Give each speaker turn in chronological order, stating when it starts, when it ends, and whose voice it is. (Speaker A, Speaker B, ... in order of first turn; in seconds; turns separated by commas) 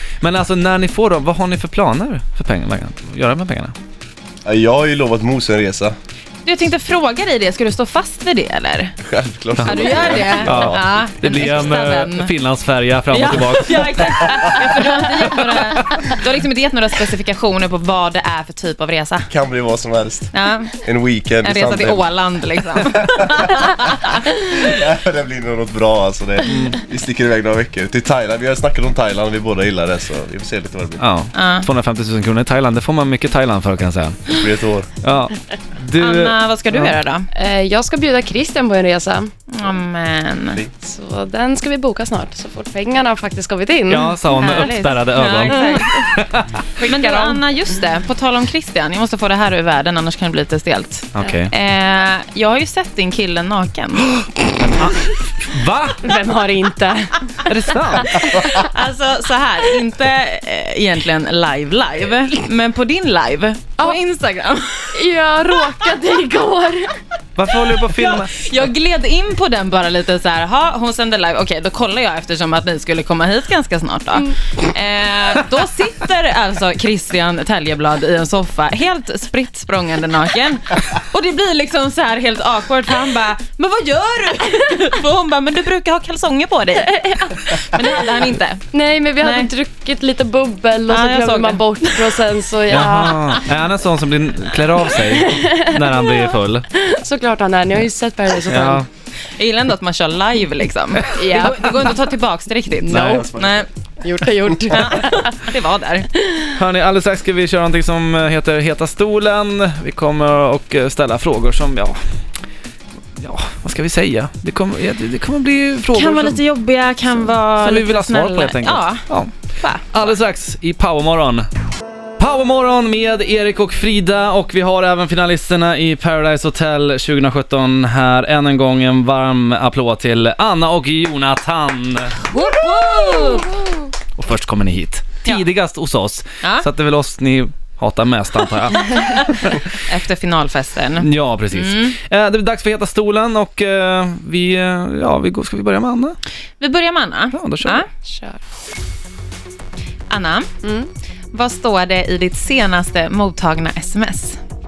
Speaker A: 0.2-3.7, Speaker B: 4.4-6.0, Speaker C: 6.4-8.9, Speaker B: 9.0-10.9, Speaker A: 9.6-14.4, Speaker C: 9.7-12.3, Speaker C: 13.1-19.3, Speaker A: 15.8-16.1, Speaker B: 19.3-22.1, Speaker C: 20.3-20.8, Speaker C: 21.4-24.1, Speaker B: 23.1-31.0, Speaker A: 26.4-26.8, Speaker A: 31.0-34.2, Speaker C: 31.3-31.7, Speaker B: 34.3-34.9, Speaker A: 35.0-37.0, Speaker C: 36.0-37.3, Speaker D: 37.3-39.3, Speaker C: 39.5-40.6, Speaker D: 40.8-44.7, Speaker A: 43.9-46.5, Speaker C: 44.3-46.1, Speaker D: 45.5-45.8, Speaker D: 46.8-47.4, Speaker C: 46.8-54.2, Speaker A: 51.1-51.5, Speaker A: 54.4-56.0, Speaker D: 56.0-58.7, Speaker A: 57.5-58.5, Speaker C: 58.3-65.0, Speaker D: 64.9-66.9, Speaker A: 67.3-68.3, Speaker C: 67.9-88.7, Speaker D: 88.7-93.5, Speaker C: 89.2-89.5, Speaker C: 90.9-93.4, Speaker A: 92.7-96.7, Speaker D: 95.0-98.8, Speaker A: 98.5-98.8, Speaker C: 99.3-103.7, Speaker D: 101.1-101.8, Speaker D: 102.7-103.3, Speaker A: 102.9-103.2, Speaker B: 102.9-103.7, Speaker D: 104.0-105.3, Speaker C: 104.7-106.1, Speaker A: 106.5-112.0, Speaker A: 113.2-116.4, Speaker C: 115.9-119.1, Speaker A: 117.5-119.3, Speaker C: 119.6-119.9, Speaker A: 119.9-121.5, Speaker A: 122.2-132.2, Speaker C: 132.3-133.8, Speaker A: 134.2-139.6, Speaker C: 136.4-136.7, Speaker C: 139.8-142.0, Speaker A: 141.0-146.2, Speaker C: 146.6-147.9, Speaker A: 147.3-147.8, Speaker D: 148.0-148.4, Speaker C: 150.1-150.5, Speaker D: 150.6-150.9, Speaker C: 151.3-154.4